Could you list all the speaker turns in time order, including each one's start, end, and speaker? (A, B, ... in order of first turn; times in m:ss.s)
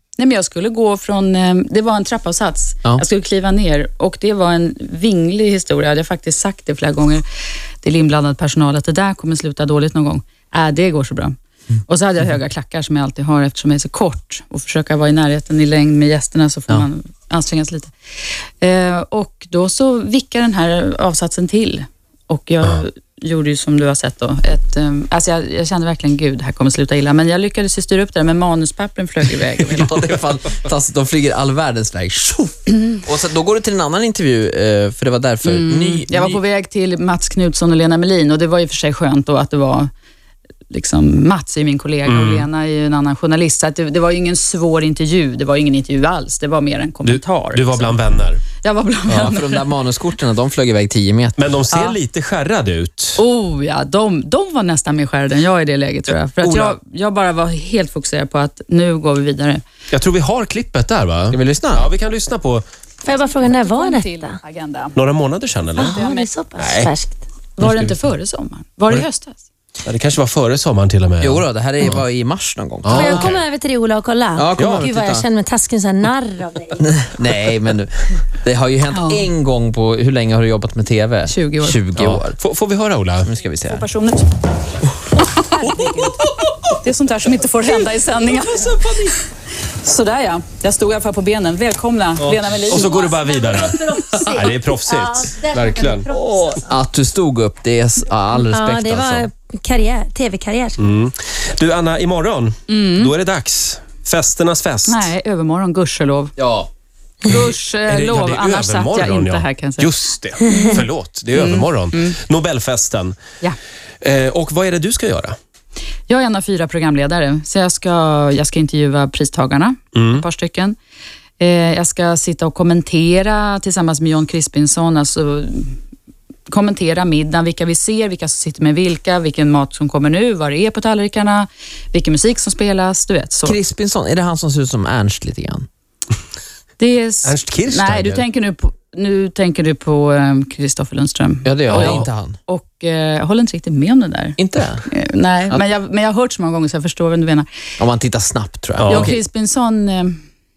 0:00.2-0:07.2 A
0:07.8-0:11.4 A
0:11.9-0:17.9 A
0:18.6-0:29.9 A
0:29.6-0:36.4 B
0:35.4-0:39.9 A
0:40.7-0:49.7 A
0:42.1-0:42.5 C
0:47.0-0:48.4 C
0:49.1-0:51.5 B
0:51.4-0:53.2 C
0:51.7-0:52.0 A
0:53.2-0:59.6 A
0:56.1-0:56.8 C
0:59.9-1:02.6 C
1:01.3-1:01.9 B
1:03.0-1:04.4 D
1:03.1-1:05.0 A
1:05.0-1:06.0 C
1:05.8-1:07.2 D
1:05.8-1:06.4 A
1:06.6-1:06.9 C
1:07.6-1:09.4 A
1:07.6-1:08.0 C
1:09.8-1:12.0 C
1:11.2-1:13.3 B
1:12.8-1:13.4 C
1:12.9-1:16.8 D
1:14.4-1:15.2 B
1:14.6-1:14.9 C
1:16.8-1:22.4 B
1:18.9-1:19.3 A
1:21.3-1:21.8 A
1:22.0-1:23.3 C
1:23.2-1:23.8 B
1:23.7-1:24.3 A
1:25.2-1:26.2 A
1:25.9-1:26.5 B
1:26.8-1:29.2 A
1:28.5-1:29.1 B
1:29.8-1:33.0 A
1:32.2-1:36.1 C
1:32.8-1:33.7 D
1:33.6-1:34.5 A
1:36.3-1:39.3 B
1:38.5-1:40.8 D
1:40.8-1:45.1 C
1:42.7-1:43.1 A
1:44.9-1:46.4 A
1:46.4-1:46.7 B
1:47.2-1:49.9 A
1:47.9-1:53.2 C
1:50.5-1:50.8 A
1:51.3-1:52.2 A
1:54.0-1:55.4 C
1:56.1-2:00.8 A
1:59.9-2:00.2 C
2:01.4-2:05.8 A
2:06.5-2:13.6 A
2:13.4-2:15.7 B
2:16.8-2:27.5 A
2:17.2-2:18.2 C
2:21.4-2:22.4 B
2:21.7-2:22.0 C
2:24.4-2:24.8 B
2:27.8-2:29.2 B
2:28.8-2:29.1 C
2:28.9-2:30.2 A